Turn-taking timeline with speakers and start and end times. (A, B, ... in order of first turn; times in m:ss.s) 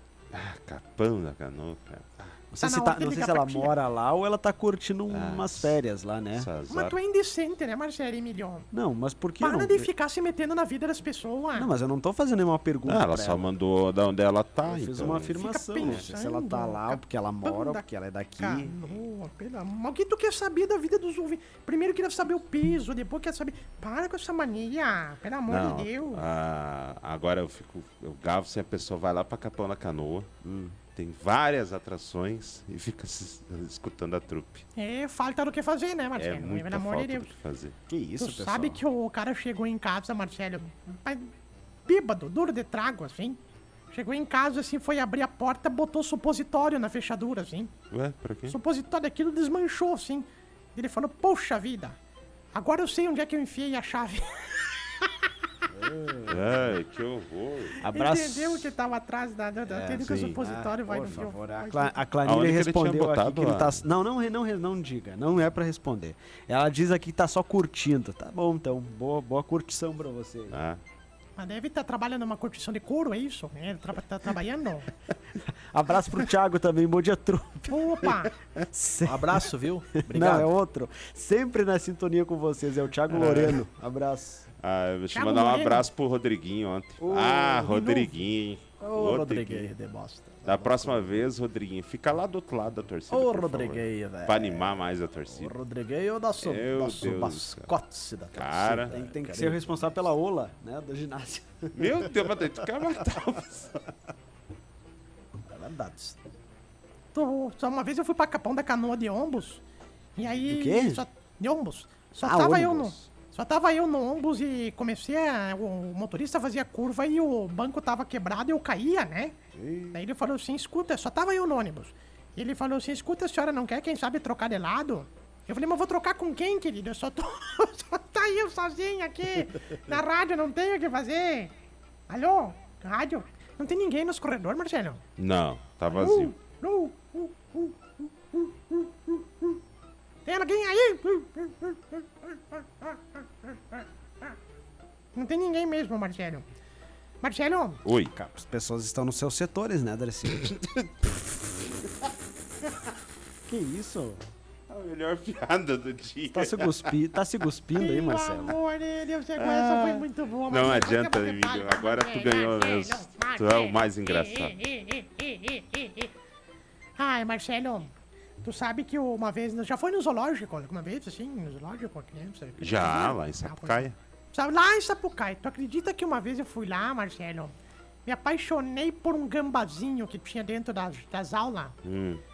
0:00.3-0:02.4 A
0:02.5-0:06.5 B
0:02.6-0:03.7 C
0:05.1-0:05.8 A
0:06.4-0:07.0 A
0:06.7-0:08.7 C
0:08.7-0:09.9 B
0:09.4-0:11.7 C
0:11.5-0:13.4 B
0:12.9-0:16.0 A
0:14.6-0:18.8 B
0:15.3-0:17.8 C
0:18.4-0:26.2 C
0:25.5-0:30.3 A
0:30.4-0:30.8 B
0:30.9-0:34.6 A
0:34.8-0:37.3 C
0:36.2-0:37.8 A
0:37.9-0:38.8 B
0:38.2-0:41.3 C
0:41.8-0:43.4 C
0:43.9-0:47.7 C
0:47.9-0:48.6 A
0:48.5-0:52.0 C
0:52.5-0:55.2 C
0:55.7-0:56.8 B
0:56.3-0:57.8 A
0:57.8-0:58.7 B
0:57.8-1:01.9 C
0:59.6-1:10.6 B
1:00.0-1:00.4 A
1:02.2-1:03.8 A
1:10.5-1:10.8 A
1:11.4-1:14.9 C
1:15.4-1:24.5 B
1:17.7-1:18.3 C
1:19.0-1:20.5 D
1:23.1-1:23.6 A
1:24.6-1:29.7 A
1:25.1-1:25.9 C
1:27.0-1:28.1 B
1:28.8-1:31.2 D
1:30.4-1:35.5 A
1:33.1-1:40.0 D
1:36.4-1:37.7 A
1:38.3-1:38.9 A
1:38.9-1:42.4 B
1:41.7-1:43.8 A
1:45.5-1:46.2 D
1:47.1-1:49.6 C
1:50.2-1:59.4 C
1:50.4-1:51.0 B
1:52.2-1:53.0 B
1:59.6-2:00.0 B
1:59.9-2:11.5 C
2:12.1-2:15.0 C
2:15.2-2:16.3 A
2:15.9-2:19.6 C
2:20.2-2:24.3 C
2:25.1-2:26.4 C
2:27.2-2:27.8 C
2:27.8-2:28.1 A
2:28.1-2:30.5 B
2:30.4-2:30.8 A
2:33.5-2:34.3 B
2:34.7-2:36.9 A
2:36.3-2:38.6 B
2:37.7-2:46.1 C
2:39.4-2:44.5 A
2:47.0-2:47.9 C
2:48.4-2:57.5 C
2:52.6-2:54.0 A
2:58.0-3:01.8 C
3:01.8-3:02.2 A